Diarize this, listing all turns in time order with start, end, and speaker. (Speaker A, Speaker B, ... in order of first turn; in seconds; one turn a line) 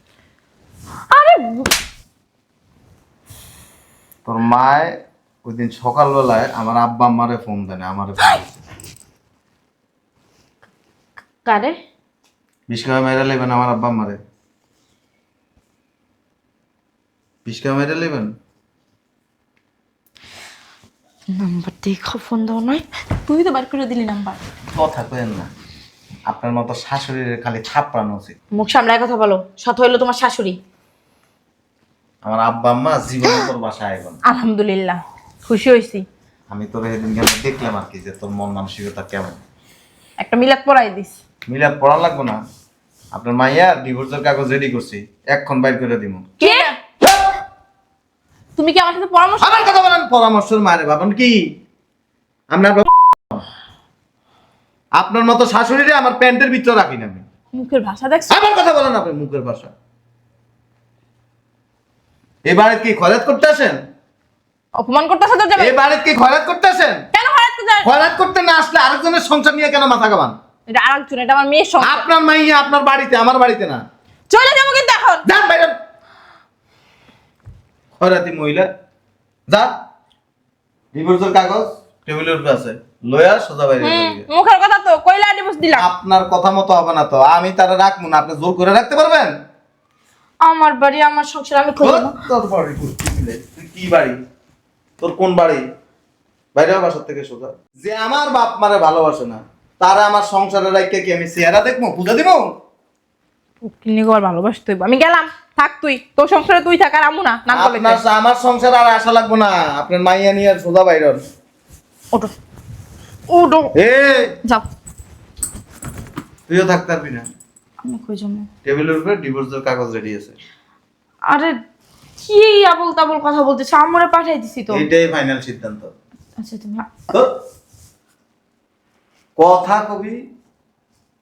Speaker A: 1.1-1.7
Speaker B: 4.2-8.5
Speaker A: 11.4-11.8
Speaker B: 12.7-14.2
Speaker B: 17.4-18.3
Speaker A: 21.3-22.8
Speaker C: 23.2-24.4
Speaker B: 24.7-25.5
Speaker B: 26.3-28.4
Speaker A: 28.5-30.6
Speaker B: 32.2-34.2
Speaker C: 34.2-36.0
Speaker B: 36.5-39.4
Speaker C: 40.2-41.1
Speaker B: 41.5-42.4
Speaker B: 43.1-46.2
Speaker C: 46.4-46.7
Speaker A: 46.4-46.7
Speaker C: 48.6-49.7
Speaker B: 49.4-51.4
Speaker B: 52.5-53.4
Speaker B: 55.0-57.2
Speaker C: 57.5-58.4
Speaker B: 58.3-59.7
Speaker B: 62.4-63.8
Speaker C: 64.8-65.8
Speaker B: 65.6-67.0
Speaker C: 67.1-67.9
Speaker B: 67.8-70.3
Speaker C: 70.7-72.1
Speaker B: 71.8-73.8
Speaker C: 74.3-75.2
Speaker B: 75.2-75.7
Speaker B: 78.0-78.7
Speaker B: 80.9-84.2
Speaker C: 83.8-85.8
Speaker B: 85.7-89.3
Speaker A: 90.4-92.2
Speaker B: 91.8-94.2
Speaker B: 95.0-95.6
Speaker B: 96.5-102.4
Speaker C: 103.6-108.0
Speaker B: 107.5-111.2
Speaker A: 113.3-113.7
Speaker B: 113.7-114.3
Speaker B: 116.5-117.3
Speaker A: 117.8-118.5
Speaker B: 118.6-120.4
Speaker A: 121.3-121.5
Speaker A: 122.2-124.8
Speaker B: 124.7-125.9
Speaker A: 126.4-127.0
Speaker B: 129.4-130.2